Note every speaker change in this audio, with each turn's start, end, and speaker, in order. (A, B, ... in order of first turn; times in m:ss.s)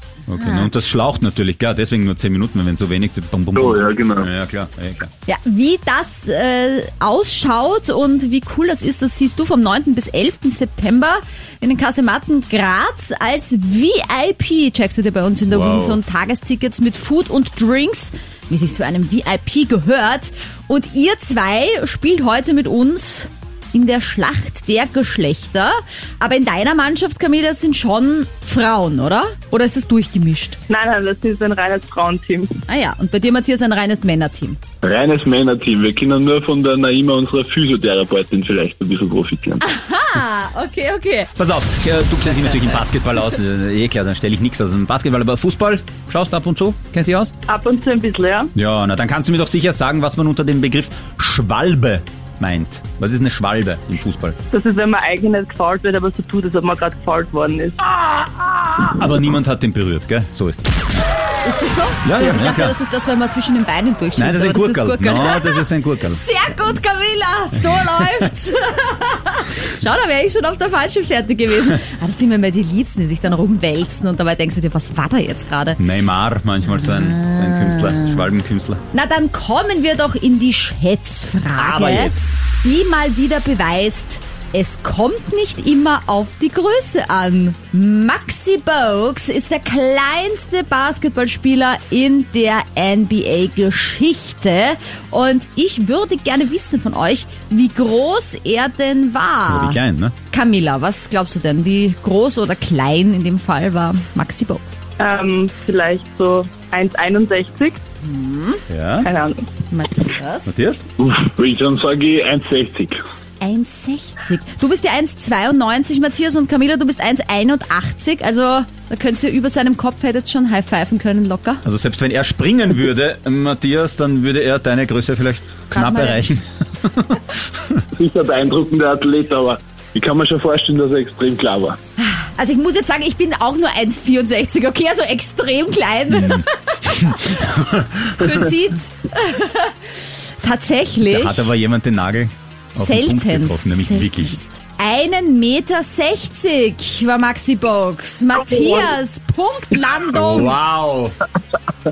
0:00.3-0:05.1 A
0:03.5-0:04.3 B
0:05.3-0:30.6 C
0:15.5-0:16.0 A
0:30.7-0:32.6 D
0:32.7-0:34.6 C
0:34.8-0:39.6 B
0:39.6-0:41.3 C
0:41.4-0:47.3 A
0:47.5-0:48.5 D
0:48.5-0:54.4 A
0:54.5-0:58.2 D
0:58.9-1:01.0 A
1:01.4-1:15.8 C
1:02.0-1:02.8 A
1:04.2-1:06.2 A
1:07.6-1:08.2 A
1:15.8-1:18.8 A
1:16.7-1:18.2 C
1:18.9-1:39.8 C
1:21.6-1:22.2 A
1:39.5-1:40.1 A
1:40.3-1:44.8 C
1:45.0-1:47.8 D
1:48.0-1:48.6 C
1:48.7-1:49.1 A
1:49.0-1:49.5 D
1:49.7-1:50.6 C
1:50.4-1:50.8 A
1:51.0-1:53.0 B
1:53.4-2:01.6 C
2:01.6-2:07.8 A
2:05.7-2:06.2 C
2:07.9-2:11.8 B
2:12.0-2:17.5 C
2:16.1-2:18.1 A
2:18.2-2:21.5 C
2:21.0-2:24.4 A
2:22.7-2:30.5 C
2:30.1-2:31.2 A